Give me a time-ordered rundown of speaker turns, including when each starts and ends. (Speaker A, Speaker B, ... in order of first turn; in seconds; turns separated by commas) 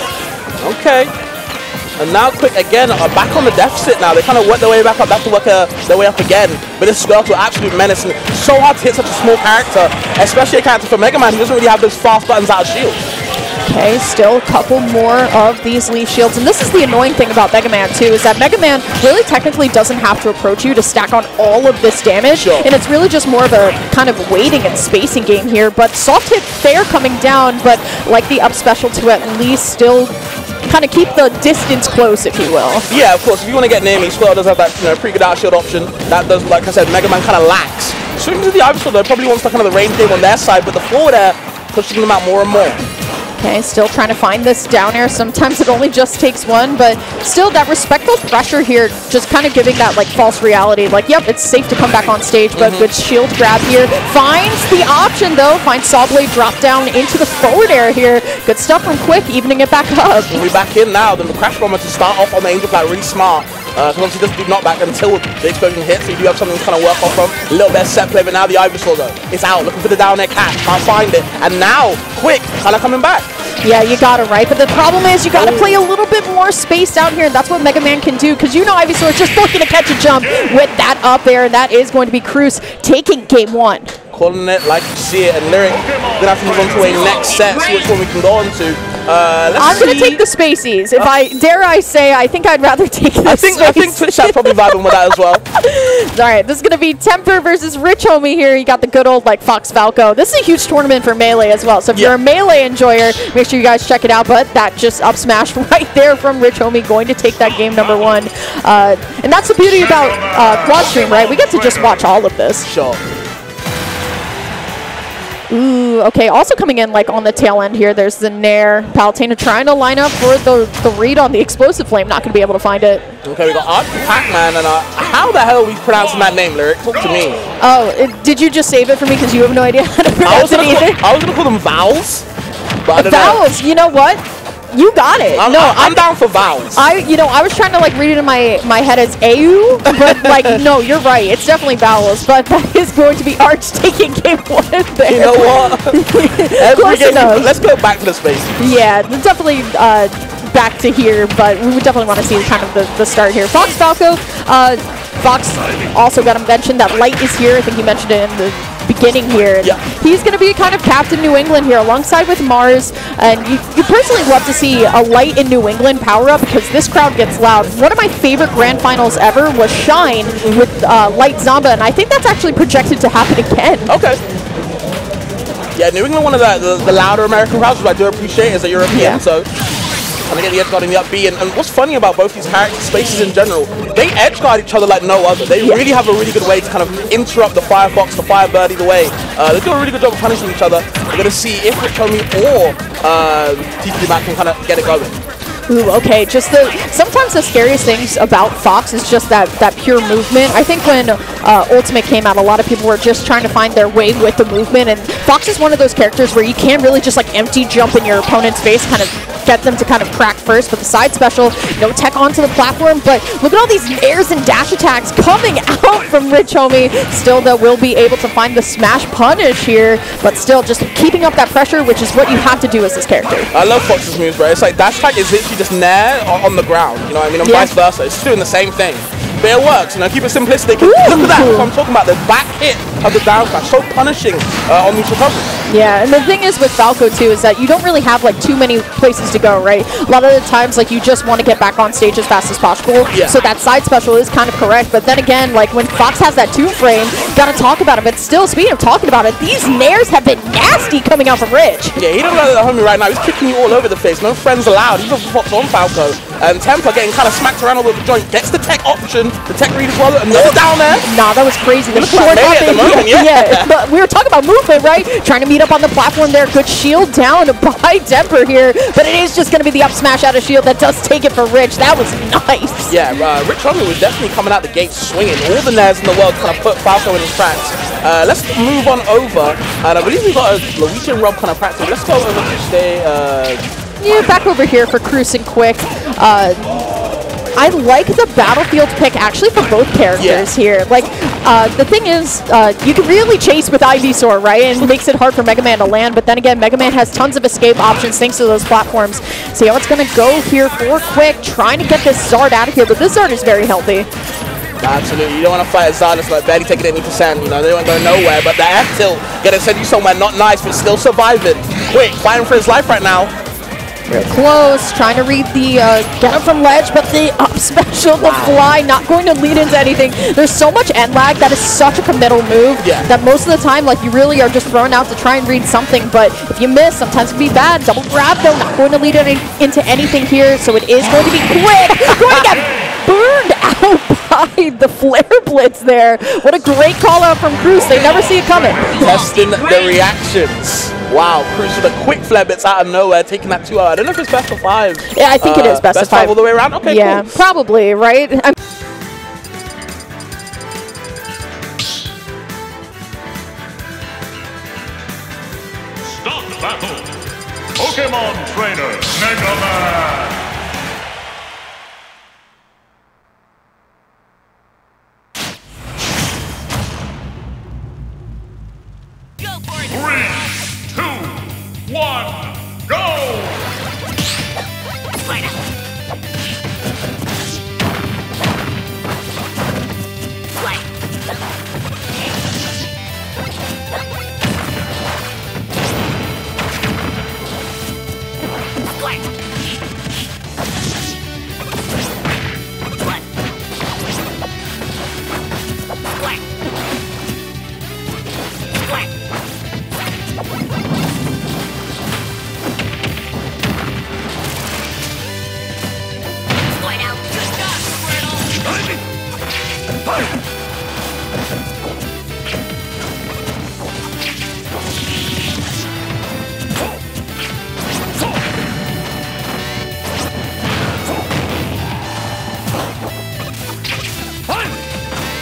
Speaker A: 0.6-1.1, Speaker A: 2.0-13.0, Speaker B: 13.6-32.9, Speaker A: 22.3-22.7, Speaker A: 32.9-42.8, Speaker B: 43.4-60.3, Speaker A: 52.5-52.9, Speaker A: 60.3-73.3, Speaker B: 73.6-83.9, Speaker A: 75.3-75.8, Speaker A: 84.1-90.2, Speaker B: 89.5-112.7, Speaker A: 93.2-95.5, Speaker A: 112.6-113.0, Speaker B: 115.5-123.0, Speaker A: 123.2-127.4, Speaker B: 127.6-131.0, Speaker A: 130.2-132.3, Speaker A: 132.8-133.4, Speaker B: 132.9-136.0, Speaker A: 135.3-136.8, Speaker B: 136.7-147.5, Speaker A: 139.9-140.6, Speaker A: 145.1-148.5, Speaker B: 148.6-173.9, Speaker A: 173.9-174.2, Speaker A: 175.8-179.5, Speaker B: 178.9-179.2, Speaker A: 180.3-195.1, Speaker B: 195.7-223.5, Speaker A: 223.5-235.5, Speaker B: 227.4-227.7, Speaker B: 230.8-231.7, Speaker B: 235.7-252.0, Speaker A: 243.1-243.4, Speaker A: 251.9-261.1, Speaker B: 260.3-273.0, Speaker A: 261.9-263.7, Speaker A: 272.9-283.6, Speaker B: 284.0-287.0, Speaker B: 287.6-304.1, Speaker A: 290.2-290.5, Speaker A: 304.8-313.3, Speaker B: 314.1-339.3, Speaker A: 318.2-318.6, Speaker A: 322.8-323.1, Speaker A: 339.0-347.4, Speaker B: 345.1-348.6, Speaker C: 356.3-356.9, Speaker C: 357.9-360.0, Speaker C: 369.9-371.4, Speaker C: 371.9-373.5